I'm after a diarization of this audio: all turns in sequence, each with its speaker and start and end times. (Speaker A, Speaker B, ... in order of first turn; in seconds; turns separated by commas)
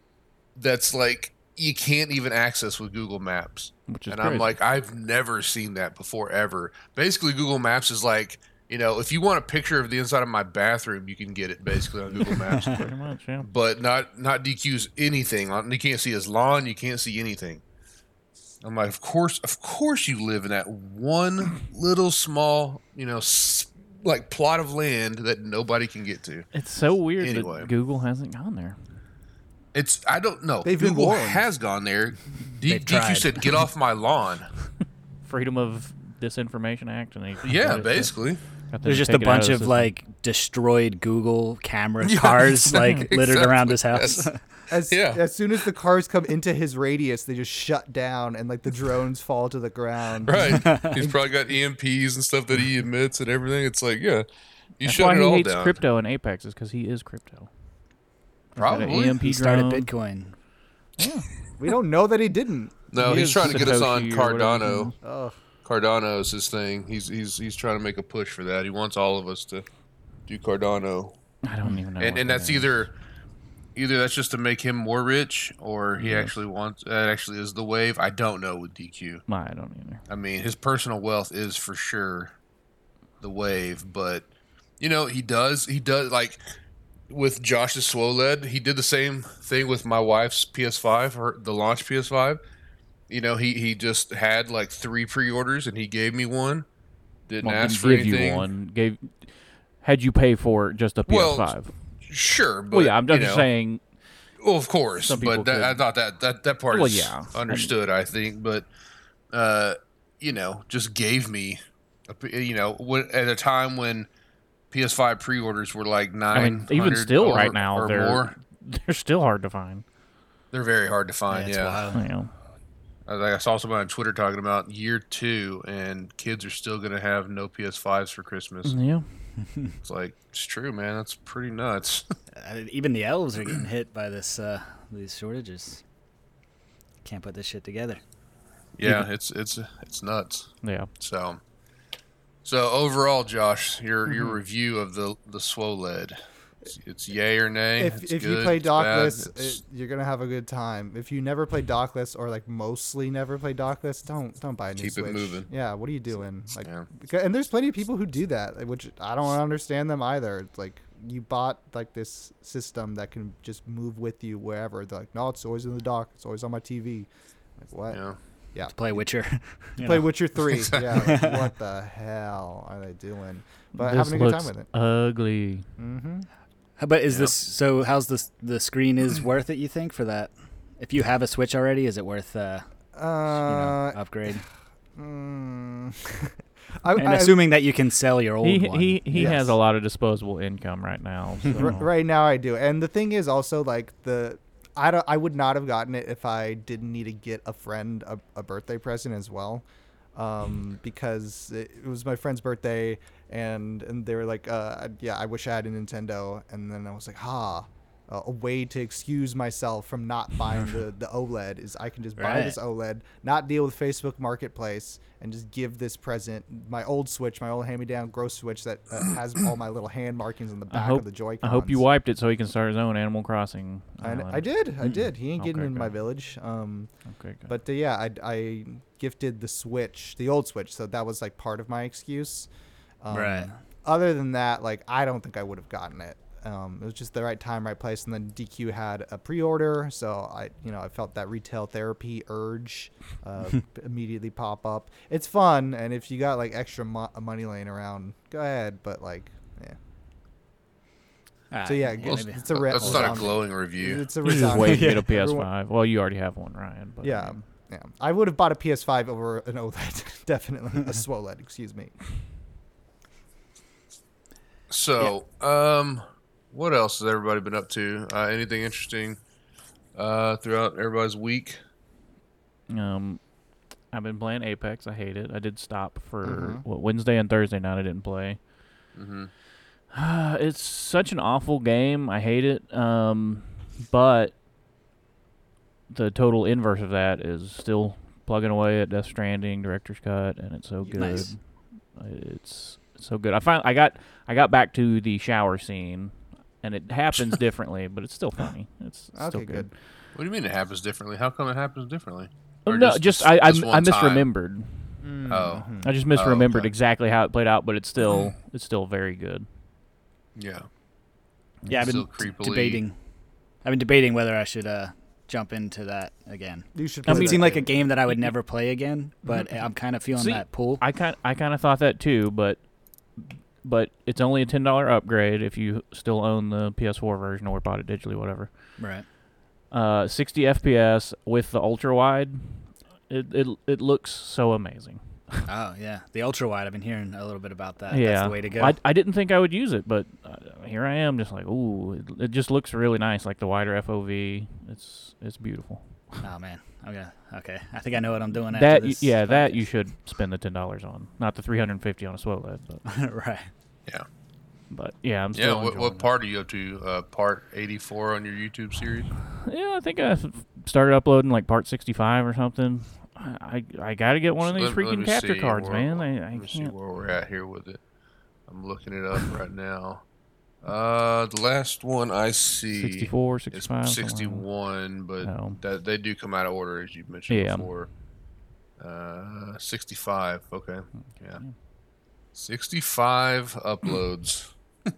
Speaker A: 0.6-17.6, Speaker B: 3.9-4.5, Speaker C: 12.3-12.8, Speaker B: 12.6-13.5, Speaker A: 18.6-26.5, Speaker B: 26.5-28.8, Speaker A: 27.2-27.7, Speaker A: 29.7-34.5, Speaker D: 30.6-31.5, Speaker C: 32.7-33.6, Speaker B: 35.2-38.1, Speaker A: 37.4-38.4, Speaker B: 38.7-39.9, Speaker C: 38.8-44.6, Speaker A: 42.0-44.3, Speaker D: 44.7-51.2, Speaker A: 44.9-45.2, Speaker A: 50.3-54.3, Speaker C: 50.5-51.0, Speaker A: 54.8-55.8, Speaker B: 54.8-57.5, Speaker B: 58.5-59.9, Speaker A: 58.6-59.2, Speaker C: 59.2-60.4, Speaker B: 61.0-61.3, Speaker D: 61.6-62.9, Speaker A: 62.9-64.9, Speaker B: 63.0-65.0, Speaker D: 65.0-65.4, Speaker A: 65.7-69.7, Speaker A: 70.3-71.2, Speaker B: 71.4-72.7, Speaker A: 72.0-72.9, Speaker A: 73.8-79.2, Speaker B: 76.0-76.3, Speaker B: 79.3-80.0, Speaker A: 80.1-82.3, Speaker A: 83.2-84.3, Speaker A: 84.8-86.4, Speaker A: 87.1-92.4, Speaker A: 93.1-96.7, Speaker A: 97.3-98.5, Speaker B: 97.4-101.8, Speaker A: 101.1-103.5, Speaker B: 102.7-103.8, Speaker A: 104.4-108.7, Speaker B: 105.0-105.8, Speaker B: 106.7-107.7, Speaker A: 109.3-114.1, Speaker A: 114.7-118.4, Speaker B: 116.3-119.8, Speaker A: 120.5-121.8, Speaker C: 121.3-122.1, Speaker B: 121.9-122.3, Speaker A: 123.1-128.8, Speaker B: 128.7-129.3, Speaker C: 129.4-129.7, Speaker A: 129.8-132.0, Speaker C: 132.4-135.8, Speaker C: 137.0-138.0, Speaker A: 138.8-141.4, Speaker B: 138.8-139.1, Speaker B: 140.6-140.9, Speaker A: 142.4-149.6, Speaker D: 147.8-174.7, Speaker A: 154.8-155.5, Speaker A: 156.6-156.9, Speaker A: 167.9-168.2, Speaker C: 168.7-170.1, Speaker C: 170.9-171.4, Speaker B: 173.7-175.7, Speaker D: 175.8-176.3, Speaker C: 176.8-182.7, Speaker A: 177.1-177.4, Speaker D: 182.9-184.0, Speaker C: 183.4-184.4, Speaker D: 184.9-187.4, Speaker C: 187.0-189.4, Speaker B: 188.4-191.9, Speaker D: 189.1-189.6, Speaker D: 191.5-221.8, Speaker C: 212.2-212.6, Speaker B: 220.7-224.5, Speaker D: 224.0-232.5, Speaker C: 224.8-225.1, Speaker B: 225.4-226.0, Speaker B: 227.1-227.5, Speaker D: 233.0-249.8, Speaker C: 233.1-233.6, Speaker C: 251.5-253.4, Speaker D: 251.6-255.5, Speaker A: 252.0-254.1, Speaker B: 254.2-257.4, Speaker C: 254.3-255.1, Speaker D: 257.0-262.1, Speaker A: 264.7-269.2, Speaker A: 269.9-271.6, Speaker B: 272.7-273.4, Speaker B: 273.9-278.4, Speaker D: 276.2-276.6, Speaker A: 278.9-279.3, Speaker B: 279.9-284.4, Speaker B: 285.9-299.7, Speaker D: 290.8-291.3, Speaker C: 290.9-291.3, Speaker D: 299.1-299.7, Speaker A: 300.1-304.3, Speaker B: 302.7-305.0, Speaker D: 305.0-305.9, Speaker A: 305.3-306.7, Speaker B: 305.8-309.5, Speaker A: 308.0-308.3, Speaker A: 310.4-310.7, Speaker B: 311.6-312.0, Speaker C: 311.7-313.0, Speaker A: 311.8-312.8, Speaker C: 313.6-320.8, Speaker D: 316.7-317.7, Speaker B: 317.1-317.5, Speaker B: 318.1-318.3, Speaker B: 320.1-328.8, Speaker C: 328.8-329.1, Speaker B: 329.7-335.5, Speaker C: 335.5-338.8, Speaker B: 337.9-346.2, Speaker C: 346.2-349.7, Speaker B: 348.5-352.9, Speaker C: 352.9-353.5, Speaker B: 354.7-356.1, Speaker A: 355.3-359.2, Speaker B: 359.4-366.7, Speaker A: 364.4-367.8, Speaker A: 368.5-370.1, Speaker A: 370.6-377.9, Speaker B: 372.7-374.5, Speaker B: 375.2-375.6, Speaker B: 377.3-377.7, Speaker A: 378.8-381.4, Speaker B: 381.1-381.6, Speaker A: 382.3-384.5